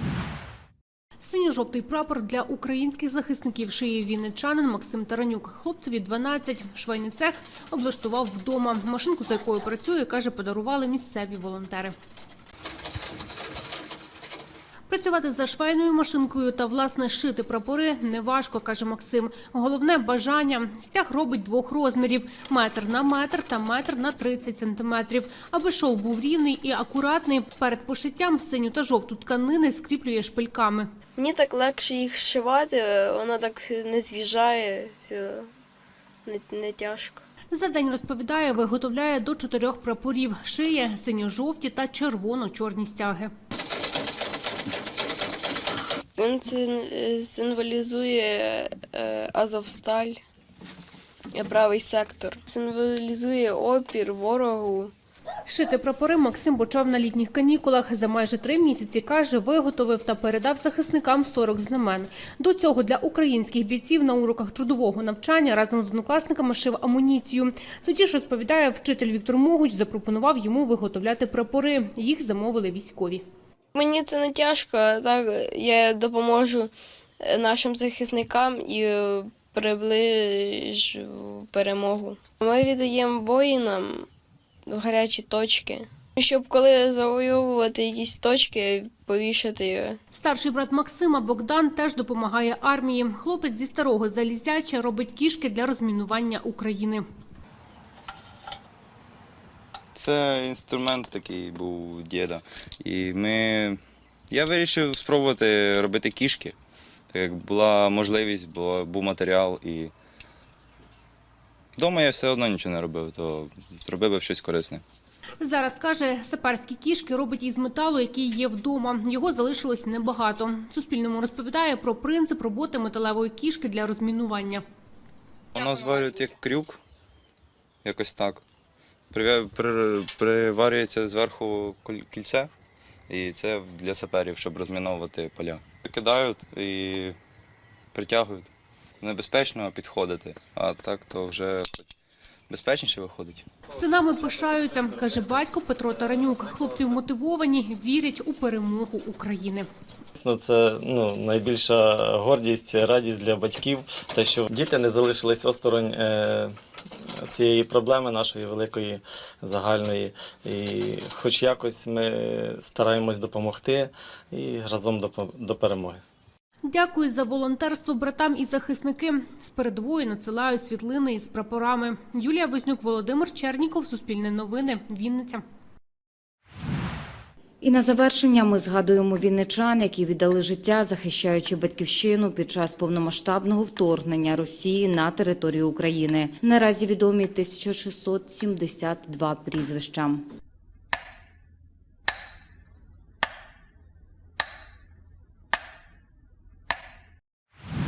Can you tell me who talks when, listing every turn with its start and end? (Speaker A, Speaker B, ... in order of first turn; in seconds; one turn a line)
Speaker A: 1.2-11.9
Speaker A: 14.9-30.9
Speaker B: 31.2-35.5
Speaker B: 36.3-37.2
Speaker A: 37.5-43.3
Speaker B: 46.2-50.2
Speaker B: 51.3-54.9
Speaker A: 55.5-73.2
Speaker B: 73.8-84.1
Speaker B: 84.7-90.0
Speaker A: 90.1-97.0
Speaker C: 100.0-103.8
Speaker C: 104.3-106.5
Speaker C: 107.1-109.9
Speaker C: 111.8-114.8
Speaker A: 115.4-124.6
Speaker C: 125.6-126.8
Speaker C: 127.8-128.4
Speaker C: 129.1-132.5
Speaker C: 133.1-137.2
Speaker C: 137.9-138.5
Speaker C: 139.0-141.9
Speaker C: 142.5-143.4
Speaker A: 143.7-149.7
Speaker D: 150.2-156.5
Speaker D: 157.2-166.0
Speaker A: 166.7-175.4
Speaker E: 177.6-190.2